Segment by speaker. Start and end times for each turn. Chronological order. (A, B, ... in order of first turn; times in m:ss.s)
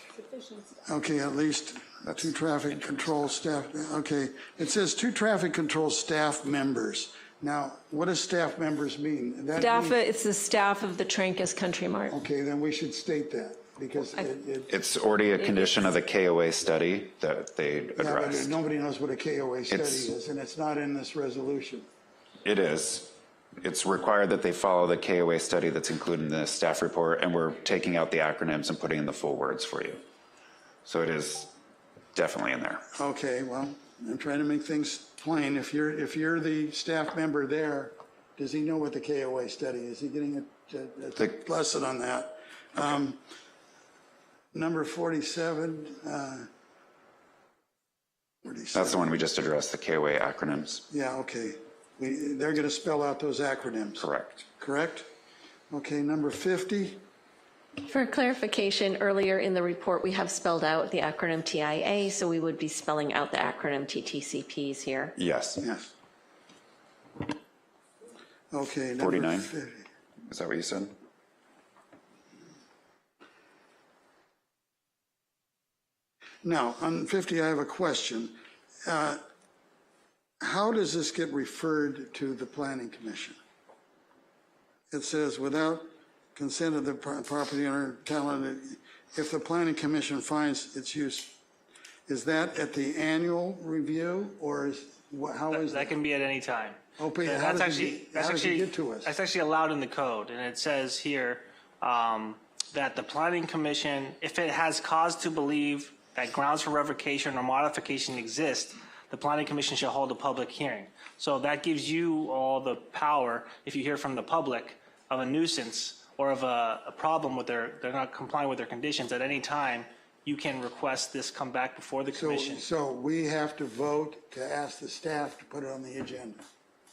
0:00.9-0:10.0 A
0:02.0-0:03.3 B
0:09.6-0:12.0 C
0:12.1-0:14.7 A
0:14.7-0:18.6 B
0:18.0-0:21.8 A
0:19.7-0:20.1 B
0:22.4-0:30.0 B
0:30.8-0:31.5 B
0:32.1-0:32.8 B
0:33.0-0:43.2 A
0:44.5-0:46.5 A
0:48.4-0:49.1 A
0:48.7-0:50.8 B
0:50.9-0:54.1 A
0:54.0-0:54.4 B
0:54.6-0:55.1 A
0:55.7-0:57.0 A
0:57.8-1:05.1 D
1:05.2-1:05.6 B
1:05.6-1:05.9 A
1:08.5-1:09.8 A
1:09.0-1:09.5 B
1:10.3-1:10.9 B
1:16.4-1:19.2 A
1:20.4-1:23.4 A
1:24.9-1:31.4 A
1:32.1-1:35.9 A
1:35.5-2:02.6 E
1:37.0-1:39.1 A
2:02.2-2:06.4 A